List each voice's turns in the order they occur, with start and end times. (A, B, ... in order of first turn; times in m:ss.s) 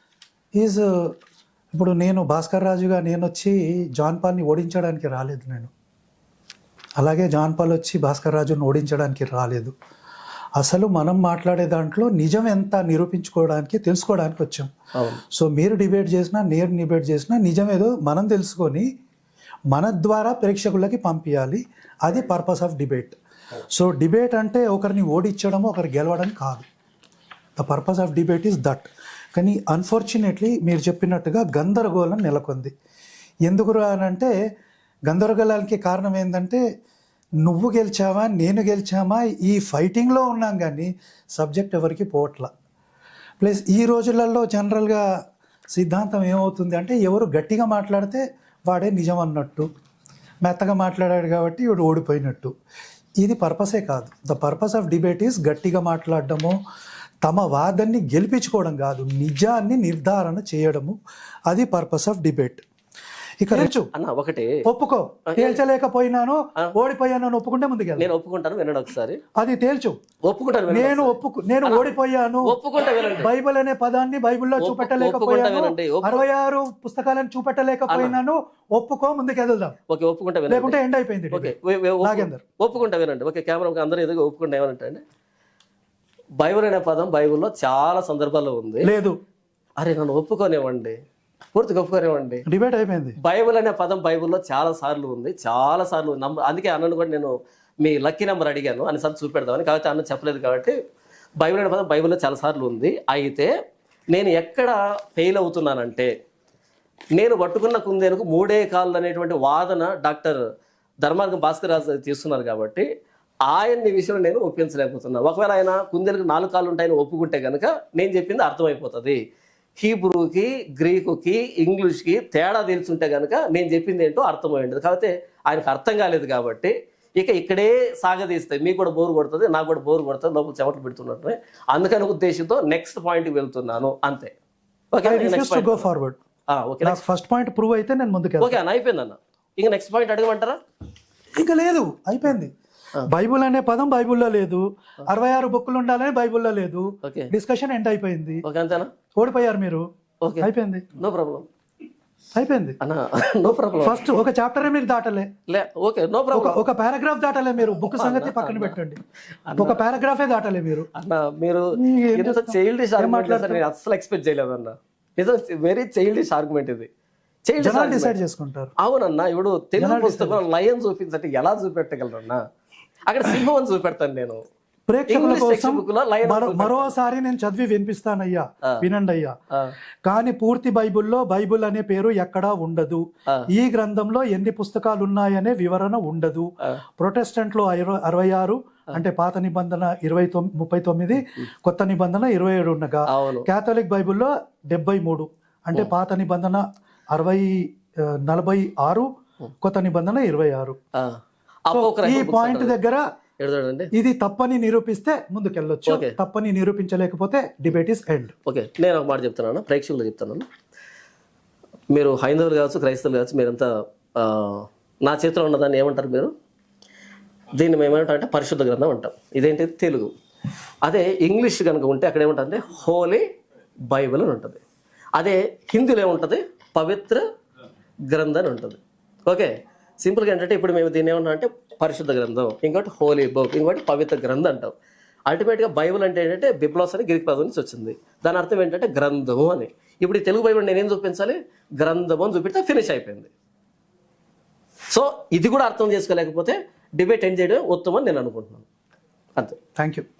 0:00.6-0:01.1 A
0:01.7-0:05.7 A
0:07.0-0:09.7 A
0:10.6-0:14.7 A
0:15.0-0:15.2 B
0:15.3-0:18.9 A
0:19.7-0:23.2 A
0:23.7-0:26.7 A
0:27.6-0:32.7 A
0:33.5-0:34.3 A
0:35.1-0:36.6 A
0:37.4-0:42.5 A
0:43.4-0:45.1 A
0:45.7-0:49.7 A
0:50.4-0:52.5 A
0:53.2-0:56.6 A
0:57.2-1:01.0 A
1:01.5-1:02.6 A
1:03.4-1:03.9 A
1:03.5-1:04.6 B
1:04.6-1:08.1 A
1:05.3-1:05.6 B
1:08.0-1:09.2 B
1:09.4-1:10.0 A
1:10.2-1:13.3 B
1:10.7-1:12.6 A
1:13.2-1:19.8 A
1:14.6-1:16.2 B
1:17.9-1:18.2 B
1:19.9-1:20.8 B
1:20.5-1:22.4 A
1:21.3-1:25.0 B
1:26.4-1:28.9 B
1:28.8-1:29.2 A
1:29.8-1:31.0 B
1:31.5-1:32.4 B
1:32.5-1:33.2 A
1:33.2-1:40.8 B
1:41.4-1:43.5 B
1:44.1-1:46.1 B
1:47.1-1:50.4 B
1:51.0-1:52.9 B
1:53.5-1:59.2 B
1:59.8-2:14.3 B
2:14.9-2:15.9 B
2:15.0-2:16.2 A
2:16.5-2:17.0 B
2:16.8-2:18.6 A
2:18.4-2:20.6 B
2:21.4-2:22.5 A
2:23.1-2:28.4 A
2:27.0-2:27.3 B
2:28.4-2:28.9 B
2:29.2-2:29.8 A
2:30.2-2:31.4 B
2:30.4-2:30.9 A
2:32.3-2:32.8 A
2:32.8-2:34.1 B
2:33.8-2:35.3 A
2:35.5-2:36.6 B
2:36.3-2:39.0 A
2:37.9-2:38.8 B
2:39.4-2:39.8 B
2:39.6-2:40.9 A
2:40.9-2:46.9 B
2:41.8-2:43.6 A
2:47.5-2:48.1 B
2:47.6-2:48.7 A
2:48.8-2:52.4 B
2:49.8-2:50.4 A
2:53.1-2:54.4 B
2:54.9-2:59.3 A
2:55.1-2:56.9 B
3:00.0-3:19.1 A
3:13.1-3:13.4 B
3:19.6-3:20.8 A
3:21.7-3:22.8 B
3:21.7-3:23.0 A
3:23.4-3:23.9 B
3:23.9-3:28.3 A
3:25.9-3:26.1 B
3:28.4-3:30.4 B
3:31.9-3:36.3 B
3:37.6-3:40.1 B
3:40.8-3:43.2 B
3:43.9-3:44.6 B
3:45.2-3:47.2 B
3:48.1-3:54.7 B
3:55.3-4:03.3 B
4:04.9-4:08.6 B
4:09.8-4:10.0 A